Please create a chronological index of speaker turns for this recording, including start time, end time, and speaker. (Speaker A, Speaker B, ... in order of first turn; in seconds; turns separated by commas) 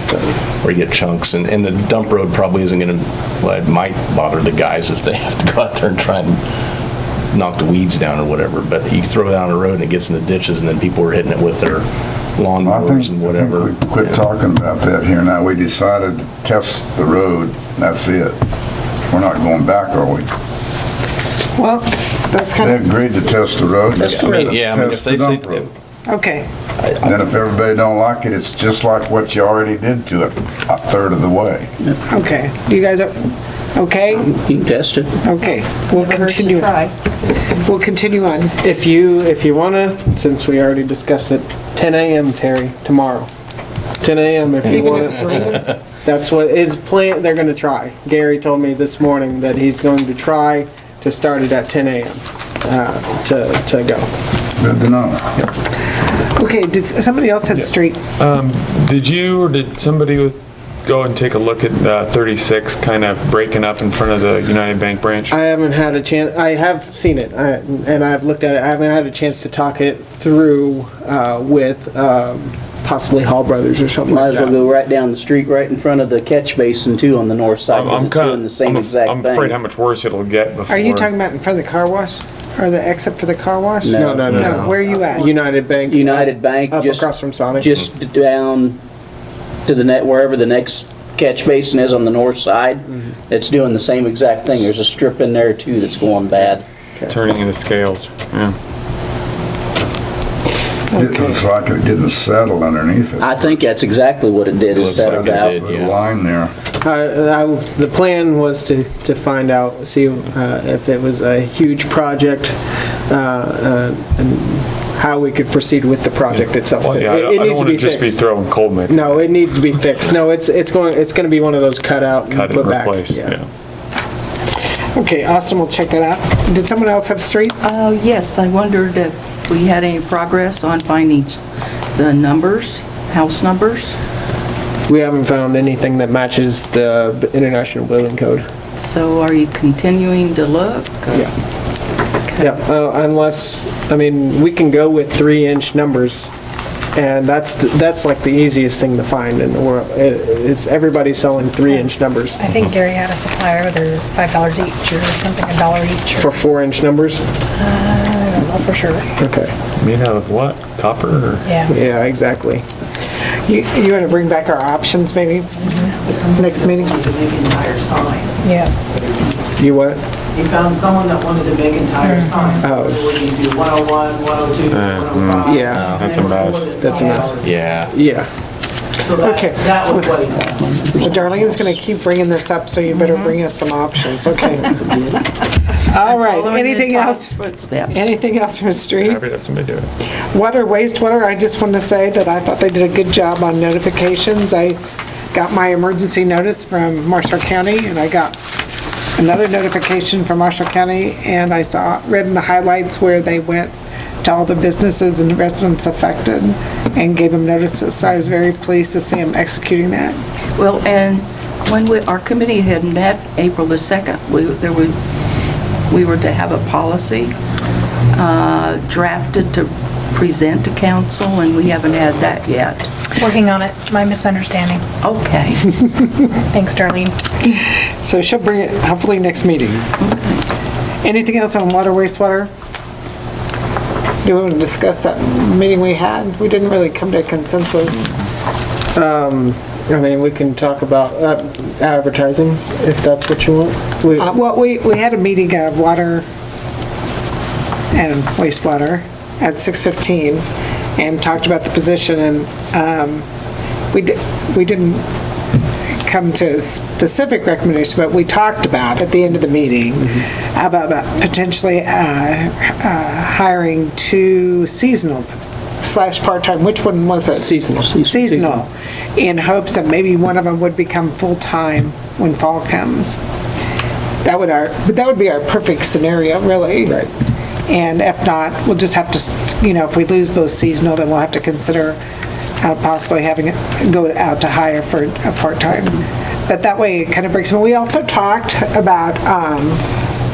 Speaker A: 0.6-6.4, Speaker A: 7.3-14.2, Speaker B: 12.6-18.4, Speaker B: 19.1-20.3, Speaker C: 21.6-22.8, Speaker B: 22.6-25.7, Speaker A: 24.0-25.7, Speaker C: 26.1-26.5, Speaker B: 27.0-31.7, Speaker C: 32.1-34.3, Speaker D: 34.1-35.1, Speaker C: 35.2-36.8, Speaker E: 35.9-36.9, Speaker C: 37.6-38.5, Speaker F: 38.6-43.3, Speaker F: 44.0-54.1, Speaker B: 54.6-55.4, Speaker C: 56.4-58.0, Speaker G: 57.5-65.4, Speaker F: 65.3-74.6, Speaker D: 74.1-79.6, Speaker G: 77.7-81.1, Speaker C: 80.7-85.3, Speaker D: 83.8-85.3, Speaker F: 83.9-87.7, Speaker D: 85.8-88.8, Speaker D: 89.7-97.2, Speaker G: 96.4-98.6, Speaker B: 100.9-103.5, Speaker C: 100.9-101.3, Speaker D: 103.2-105.5, Speaker A: 104.7-106.0, Speaker B: 104.8-106.5, Speaker F: 106.8-112.6, Speaker F: 113.1-118.2, Speaker G: 116.3-119.4, Speaker F: 118.9-123.4, Speaker G: 122.3-123.5, Speaker C: 125.0-127.6, Speaker E: 127.6-131.4, Speaker E: 131.9-134.0, Speaker F: 134.9-138.5, Speaker E: 138.7-141.3, Speaker F: 142.4-146.3, Speaker F: 146.9-152.5, Speaker H: 152.4-156.4, Speaker F: 156.2-157.2, Speaker H: 157.6-159.1, Speaker F: 159.2-159.5, Speaker G: 159.8-161.5, Speaker H: 161.4-161.8, Speaker F: 161.7-162.6, Speaker C: 163.5-165.8, Speaker I: 165.8-168.3, Speaker C: 166.3-167.1, Speaker H: 168.4-168.8, Speaker I: 168.9-169.3, Speaker F: 169.6-170.0, Speaker I: 170.3-177.4, Speaker F: 172.6-173.0, Speaker G: 174.7-176.8, Speaker F: 175.4-176.0, Speaker A: 175.8-176.1, Speaker F: 176.7-178.3, Speaker H: 176.9-177.3, Speaker A: 177.4-177.9, Speaker I: 179.0-181.6, Speaker F: 179.3-179.7, Speaker C: 181.0-184.9, Speaker E: 182.9-183.3, Speaker C: 185.8-187.4, Speaker E: 186.0-188.2, Speaker C: 187.9-189.2, Speaker G: 188.9-189.9, Speaker C: 190.3-194.8, Speaker C: 195.3-198.4, Speaker C: 199.2-210.2, Speaker E: 210.6-214.9, Speaker E: 215.9-217.3, Speaker E: 218.2-222.9, Speaker H: 223.2-224.8, Speaker E: 225.0-225.8, Speaker H: 226.5-227.2, Speaker C: 227.4-229.9, Speaker E: 230.0-230.4, Speaker C: 231.0-232.5, Speaker C: 234.2-238.1, Speaker F: 238.9-244.3, Speaker C: 244.2-246.3, Speaker C: 247.9-250.4, Speaker C: 251.0-253.2, Speaker C: 253.9-255.0, Speaker C: 256.1-273.2, Speaker F: 267.3-268.6, Speaker C: 274.2-277.0, Speaker C: 277.7-282.0, Speaker C: 282.6-289.8